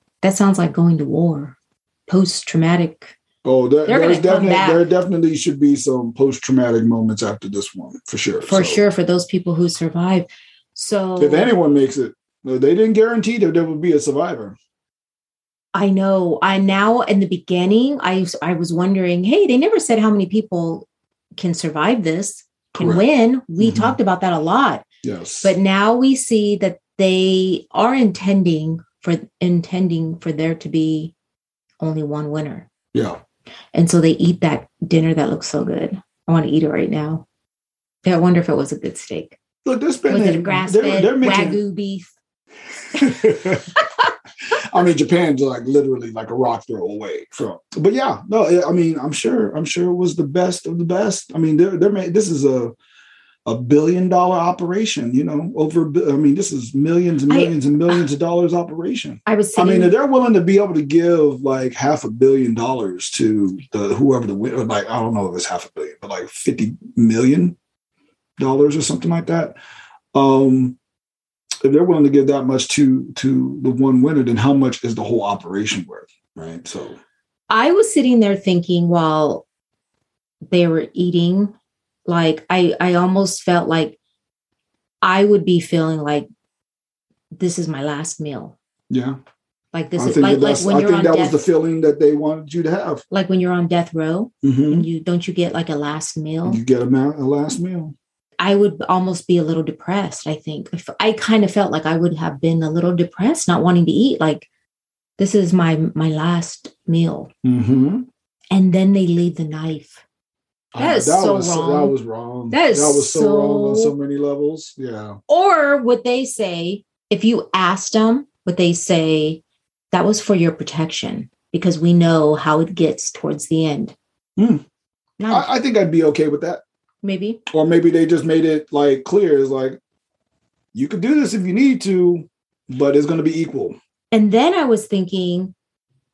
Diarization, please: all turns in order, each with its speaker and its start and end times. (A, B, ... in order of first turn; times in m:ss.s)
0:00.2-0:03.2 A
0:03.4-0:08.8 B
0:03.9-0:04.9 A
0:08.5-0:11.5 A
0:11.2-0:14.6 B
0:15.7-0:24.8 A
0:22.7-0:23.0 B
0:23.6-0:24.0 B
0:25.0-0:25.5 B
0:25.4-0:31.1 A
0:31.8-0:32.7 A
0:33.7-0:37.2 A
0:38.0-0:39.4 A
0:39.6-0:41.6 B
0:40.1-0:42.1 A
0:43.0-0:43.7 B
0:43.8-0:44.1 A
0:44.5-0:52.8 B
0:53.5-1:07.6 B
0:57.3-0:58.0 A
0:59.3-1:00.0 A
1:08.4-1:09.6 B
1:10.1-1:10.8 B
1:11.6-1:17.0 B
1:17.5-1:19.5 A
1:20.5-1:21.5 A
1:22.1-1:24.0 A
1:25.0-1:26.3 A
1:27.3-1:28.6 A
1:28.9-1:29.2 B
1:29.7-1:31.4 A
1:30.0-1:33.0 B
1:33.1-1:36.6 A
1:34.4-1:34.9 B
1:36.5-1:38.0 B
1:38.4-1:44.5 A
1:45.2-1:47.3 A
1:47.4-1:48.1 B
1:48.5-1:50.0 A
1:50.7-1:55.2 B
1:50.8-1:52.0 A
1:52.5-1:53.9 A
1:55.3-1:59.4 A
1:59.9-2:04.0 A
2:04.4-2:04.6 B
2:05.2-2:05.5 A
2:05.3-2:06.6 B
2:07.0-2:07.4 A
2:07.5-2:09.8 B
2:10.7-2:13.8 B
2:14.1-2:15.5 A